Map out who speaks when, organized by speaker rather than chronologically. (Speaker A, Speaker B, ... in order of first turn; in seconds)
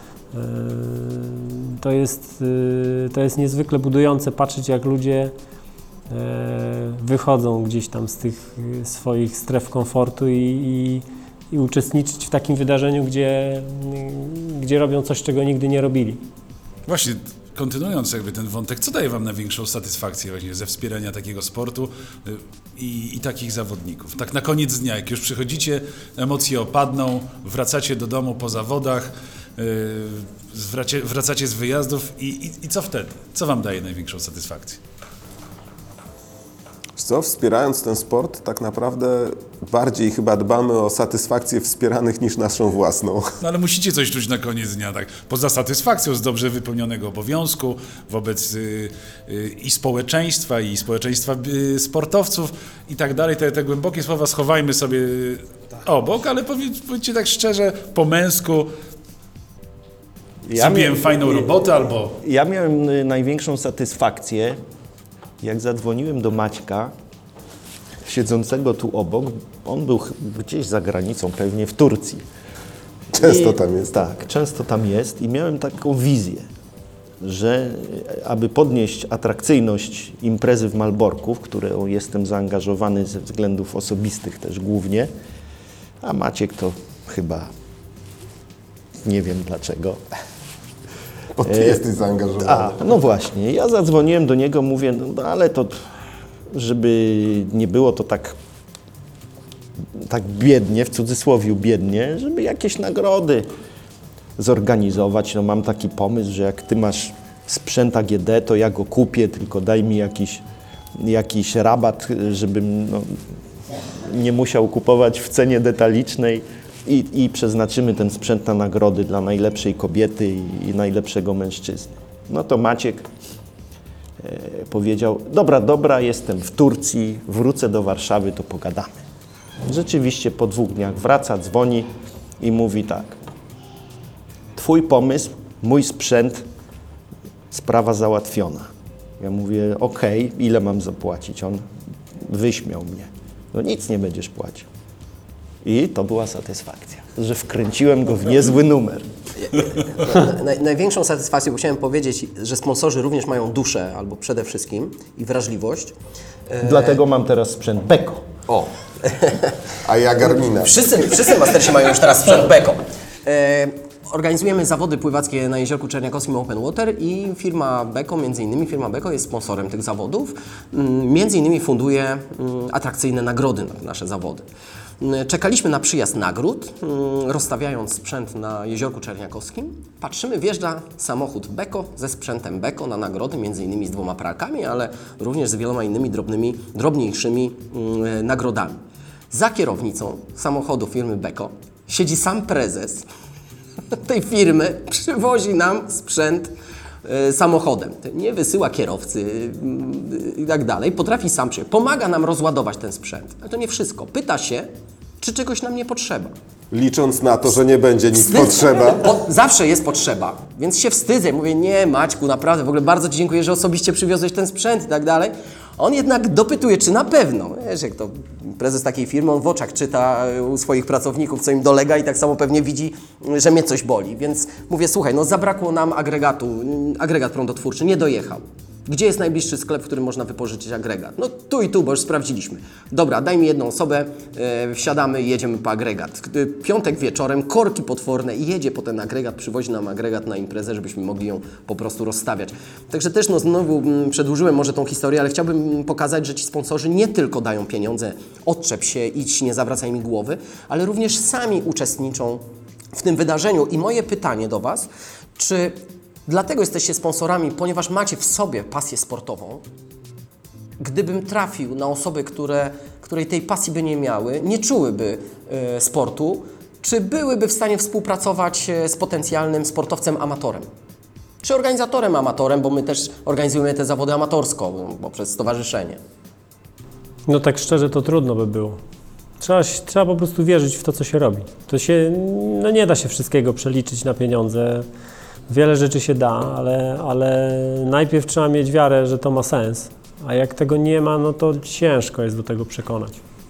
Speaker A: 0.3-5.3, 6.1-16.2, 277.3-278.8, 279.4-284.9, 285.5-293.2
Speaker B: 16.9-34.8, 43.4-58.7, 60.5-62.2
Speaker C: 37.0-43.3, 73.1-74.0, 91.4-92.8, 159.8-161.1, 206.7-209.2
Speaker D: 60.5-64.6, 65.4-66.9, 68.0-72.2, 73.1-76.5, 77.2-85.1, 86.0-87.5, 89.0-90.0, 91.4-91.8, 92.4-95.8, 96.5-98.4, 99.8-103.5, 104.4-110.4, 111.0-113.2, 113.9-123.1, 124.2-129.0, 129.6-133.2, 134.6-136.5, 137.5-141.7, 142.2-144.7, 145.6-149.1, 156.6-158.3
Speaker E: 149.4-155.9, 156.5-157.0, 158.5-159.6, 160.4-174.4, 175.0-188.8, 189.3-193.1, 193.9-196.5, 197.1-206.3, 208.2-259.6, 260.8-270.7, 271.4-276.0